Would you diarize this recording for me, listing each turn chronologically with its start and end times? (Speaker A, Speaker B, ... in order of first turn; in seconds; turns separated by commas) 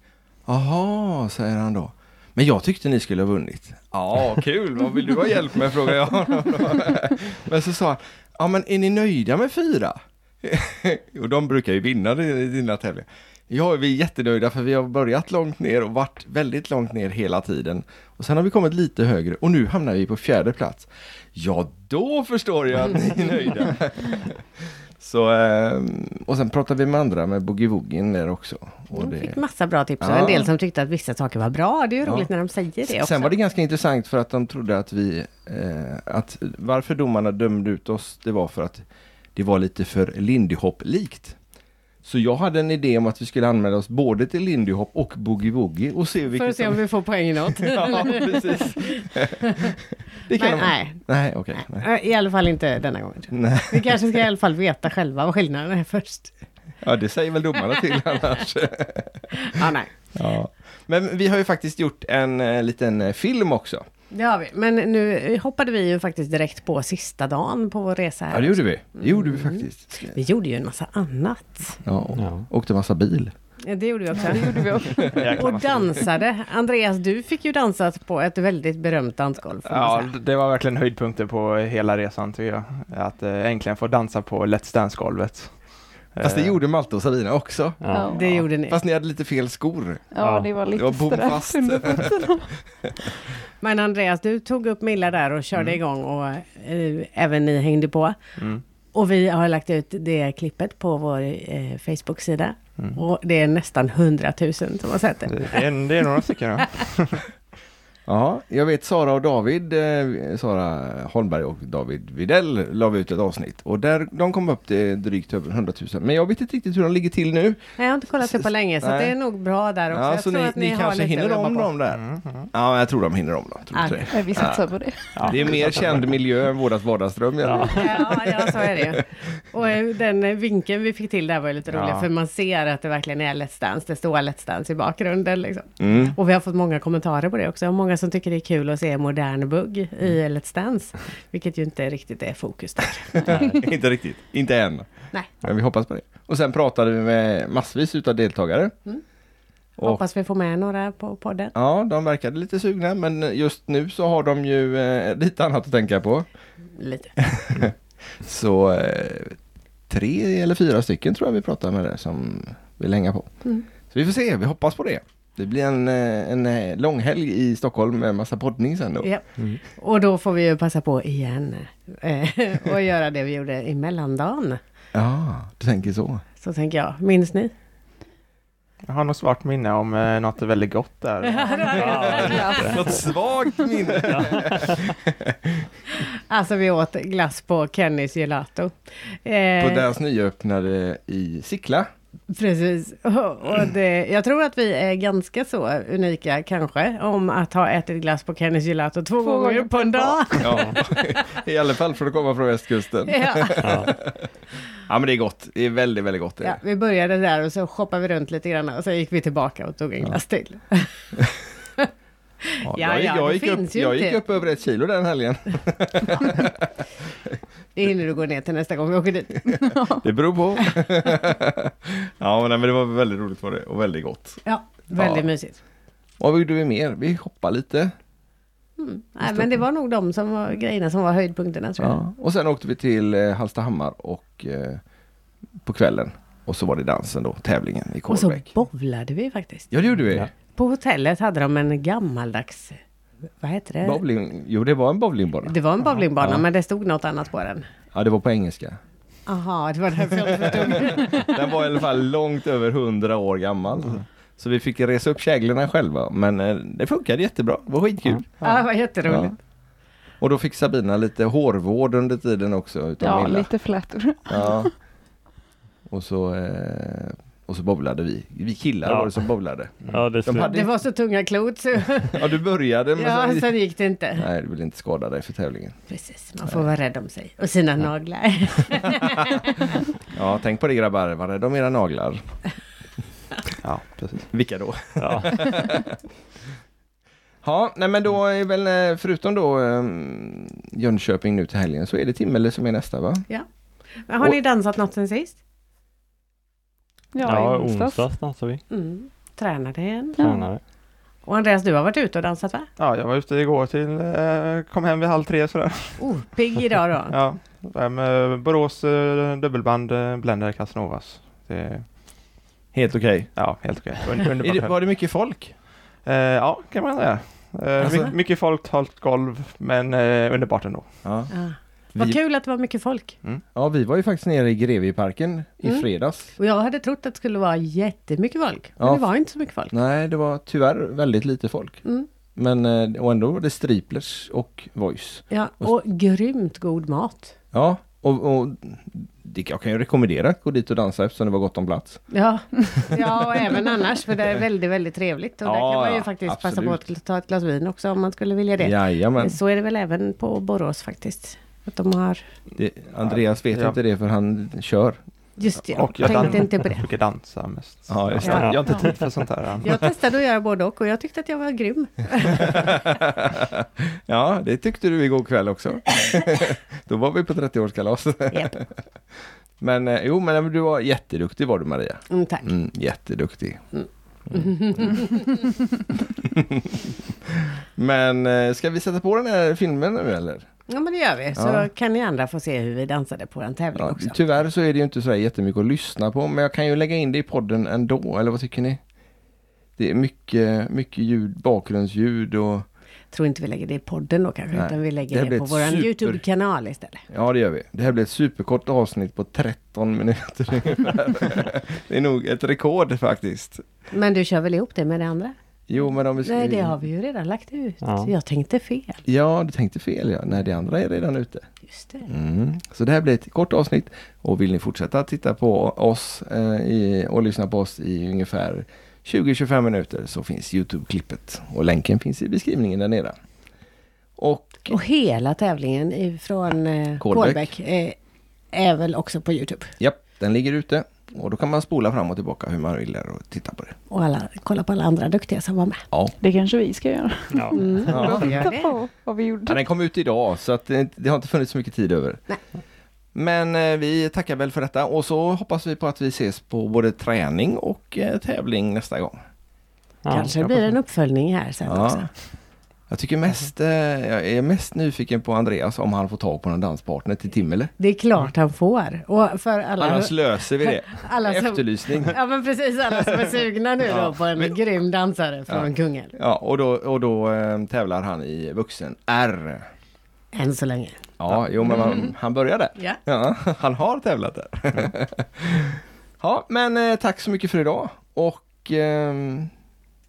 Speaker A: 0.5-29.4, Speaker B: 28.9-33.3, Speaker A: 30.0-30.5, Speaker A: 32.0-32.3, Speaker A: 32.8-41.4, Speaker A: 42.0-46.8, Speaker B: 46.3-49.0, Speaker A: 47.4-49.5, Speaker A: 50.2-51.9, Speaker B: 50.3-51.0, Speaker B: 51.6-56.3, Speaker A: 53.3-54.0, Speaker A: 56.8-63.8, Speaker B: 59.4-59.9, Speaker B: 64.1-71.8, Speaker A: 68.3-70.2, Speaker A: 71.8-73.3, Speaker C: 72.1-72.5, Speaker B: 73.6-80.1, Speaker D: 74.1-75.0, Speaker E: 75.1-76.0, Speaker E: 79.6-86.6, Speaker A: 86.2-90.0, Speaker C: 87.8-88.1, Speaker D: 87.9-88.4, Speaker B: 88.1-88.8, Speaker D: 90.1-92.6, Speaker C: 90.2-90.5, Speaker A: 90.7-92.3, Speaker B: 93.6-98.2, Speaker E: 98.4-98.6, Speaker B: 98.9-105.6, Speaker E: 105.2-107.3, Speaker A: 108.1-117.6, Speaker B: 117.8-121.7, Speaker A: 118.2-119.1, Speaker A: 119.9-128.8, Speaker E: 121.9-122.5, Speaker B: 123.7-124.0, Speaker D: 124.1-125.7, Speaker C: 125.1-125.9, Speaker C: 127.4-127.8, Speaker B: 127.7-143.4, Speaker E: 131.7-132.1, Speaker A: 135.8-136.1, Speaker A: 143.2-148.7, Speaker C: 143.3-143.6, Speaker B: 149.8-151.5, Speaker A: 151.5-156.3, Speaker B: 156.8-157.1, Speaker A: 157.3-159.3, Speaker A: 159.9-169.1, Speaker B: 169.0-174.6, Speaker A: 174.9-176.2, Speaker B: 176.4-177.5, Speaker E: 178.8-182.2, Speaker B: 181.2-182.7, Speaker C: 181.7-182.9, Speaker D: 182.2-183.2, Speaker A: 182.6-184.6, Speaker C: 184.1-184.9, Speaker B: 186.3-189.9, Speaker A: 189.6-191.9, Speaker B: 192.3-201.0, Speaker D: 199.2-200.4, Speaker A: 200.4-203.9, Speaker B: 203.1-203.8, Speaker C: 203.6-203.9, Speaker A: 204.8-206.6, Speaker B: 206.4-211.1, Speaker A: 212.6-216.6, Speaker B: 212.7-214.2, Speaker B: 217.7-219.7, Speaker D: 219.6-219.9, Speaker A: 219.8-224.4, Speaker B: 224.4-225.6, Speaker A: 224.9-225.3, Speaker A: 226.2-227.9, Speaker B: 228.8-232.0, Speaker A: 229.2-229.6, Speaker A: 231.8-234.8, Speaker A: 235.6-238.5, Speaker B: 238.1-239.7, Speaker A: 239.7-240.3, Speaker B: 240.5-242.8, Speaker B: 243.4-244.0, Speaker A: 243.8-245.6, Speaker B: 245.4-247.6, Speaker A: 246.2-246.4, Speaker A: 247.9-248.8, Speaker B: 249.2-251.4, Speaker A: 250.5-258.3, Speaker B: 258.4-259.4, Speaker A: 259.0-259.4, Speaker A: 260.2-263.5, Speaker D: 263.0-264.7, Speaker A: 264.2-264.7, Speaker A: 265.9-270.7, Speaker C: 268.8-269.3, Speaker C: 269.9-270.6, Speaker B: 270.4-272.3, Speaker A: 272.1-273.5, Speaker B: 272.9-274.2, Speaker A: 274.1-275.8, Speaker B: 275.9-279.7, Speaker A: 280.1-282.2, Speaker E: 283.6-284.3, Speaker A: 284.3-285.9, Speaker C: 284.9-285.4, Speaker A: 287.4-293.3, Speaker B: 294.0-295.4, Speaker D: 297.1-298.1, Speaker C: 297.2-298.6, Speaker B: 298.7-300.2, Speaker D: 300.1-300.5, Speaker C: 300.2-300.6, Speaker B: 301.2-302.7, Speaker E: 302.8-306.4, Speaker B: 306.0-307.2, Speaker E: 307.1-312.3, Speaker A: 312.7-313.3, Speaker E: 313.3-314.8, Speaker A: 314.4-315.5, Speaker E: 316.0-321.0, Speaker A: 317.8-318.1, Speaker A: 321.0-321.3, Speaker B: 321.3-323.2, Speaker A: 323.5-326.3, Speaker B: 325.6-329.7, Speaker A: 328.8-329.1, Speaker A: 329.7-335.7, Speaker B: 335.3-337.3, Speaker A: 337.5-342.1, Speaker B: 342.1-352.2, Speaker A: 345.4-346.9, Speaker A: 348.6-349.4, Speaker A: 352.5-355.0, Speaker E: 353.0-353.8, Speaker B: 355.4-356.9, Speaker E: 355.7-359.7, Speaker A: 357.9-358.6, Speaker B: 358.2-358.5, Speaker C: 358.3-358.7, Speaker D: 358.7-358.9, Speaker B: 359.6-362.6, Speaker A: 364.1-368.6, Speaker A: 369.6-373.6, Speaker B: 372.1-372.5, Speaker B: 373.7-375.4, Speaker A: 377.8-380.4, Speaker B: 380.7-384.4, Speaker A: 381.3-381.7, Speaker A: 383.7-388.8, Speaker A: 389.8-392.6, Speaker B: 393.1-397.0, Speaker A: 394.5-396.2, Speaker A: 397.1-403.6, Speaker B: 403.9-405.3, Speaker A: 405.7-406.8, Speaker B: 406.2-409.0, Speaker C: 407.8-408.1, Speaker A: 409.1-411.5, Speaker B: 411.7-412.1, Speaker A: 412.1-423.1, Speaker A: 424.2-424.7, Speaker B: 424.6-428.0, Speaker A: 427.0-427.5, Speaker B: 428.5-429.7, Speaker A: 429.8-433.7, Speaker B: 433.9-435.8, Speaker D: 436.2-439.6, Speaker C: 437.3-437.6, Speaker B: 437.5-438.7, Speaker A: 437.9-438.4, Speaker A: 439.4-442.2, Speaker A: 443.1-449.1, Speaker C: 450.0-450.7, Speaker B: 450.1-452.1, Speaker A: 451.6-452.3, Speaker A: 452.9-457.7, Speaker B: 457.8-466.1, Speaker A: 459.8-462.2, Speaker A: 463.8-464.5, Speaker A: 465.5-469.6, Speaker B: 470.3-471.0, Speaker A: 471.2-479.5, Speaker B: 471.7-472.1